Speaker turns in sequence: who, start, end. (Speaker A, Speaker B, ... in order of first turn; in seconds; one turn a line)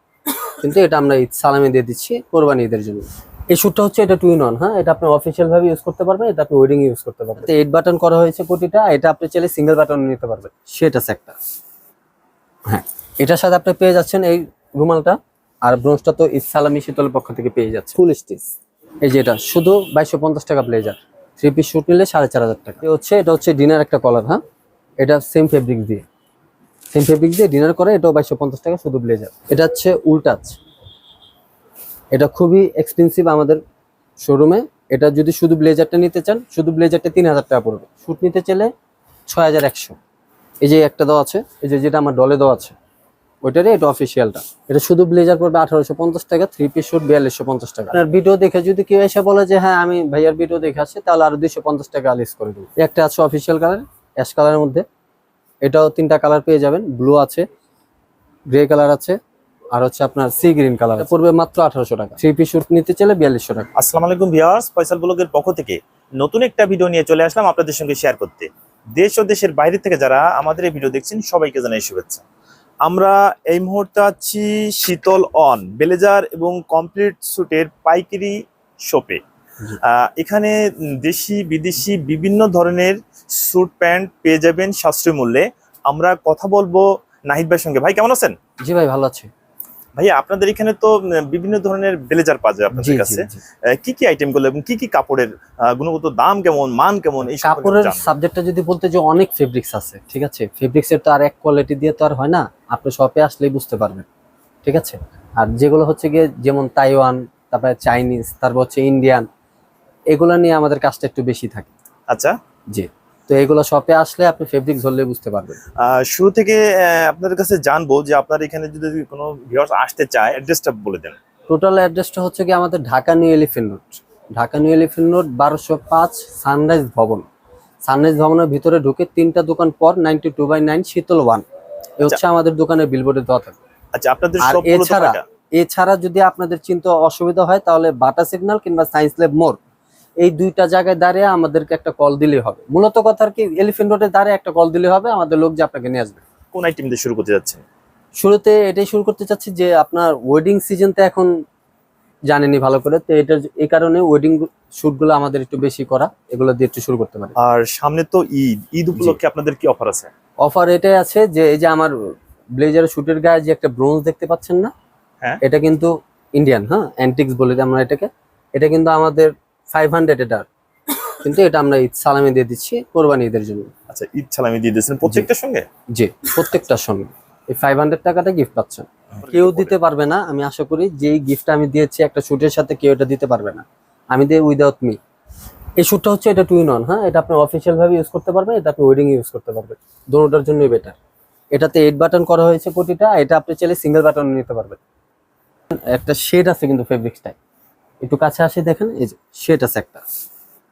Speaker A: 0.5-11.4
Speaker A: 12.7-24.4
Speaker A: 25.0-26.1
Speaker A: 26.9-30.6
Speaker A: 32.1-33.6
Speaker A: 34.2-38.7
Speaker A: 39.3-40.0
Speaker A: 40.6-42.8
Speaker A: 43.4-54.8
Speaker A: 55.6-57.5
Speaker A: 58.5-59.2
Speaker A: 59.8-63.7
Speaker B: 63.8-72.2
Speaker B: 72.8-79.2
Speaker B: 79.8-88.4
Speaker A: 88.6-89.3
Speaker B: 90.0-98.1
Speaker A: 92.8-93.4
Speaker A: 97.4-104.1
Speaker A: 104.7-109.3
Speaker A: 110.1-111.7
Speaker B: 112.1-112.4
Speaker A: 112.7-115.6
Speaker B: 115.8-121.2
Speaker A: 121.5-127.3
Speaker A: 127.9-131.4
Speaker A: 132.0-133.6
Speaker B: 133.9-135.2
Speaker A: 134.4-139.6
Speaker A: 140.2-146.2
Speaker B: 146.5-147.6
Speaker A: 148.2-151.3
Speaker A: 152.3-157.3
Speaker B: 157.4-160.1
Speaker A: 160.4-164.7
Speaker A: 165.4-170.5
Speaker A: 171.1-173.7
Speaker B: 173.9-175.7
Speaker A: 175.9-185.0
Speaker B: 179.1-179.8
Speaker A: 185.8-191.0
Speaker A: 191.5-194.8
Speaker A: 195.7-197.4
Speaker A: 198.0-200.0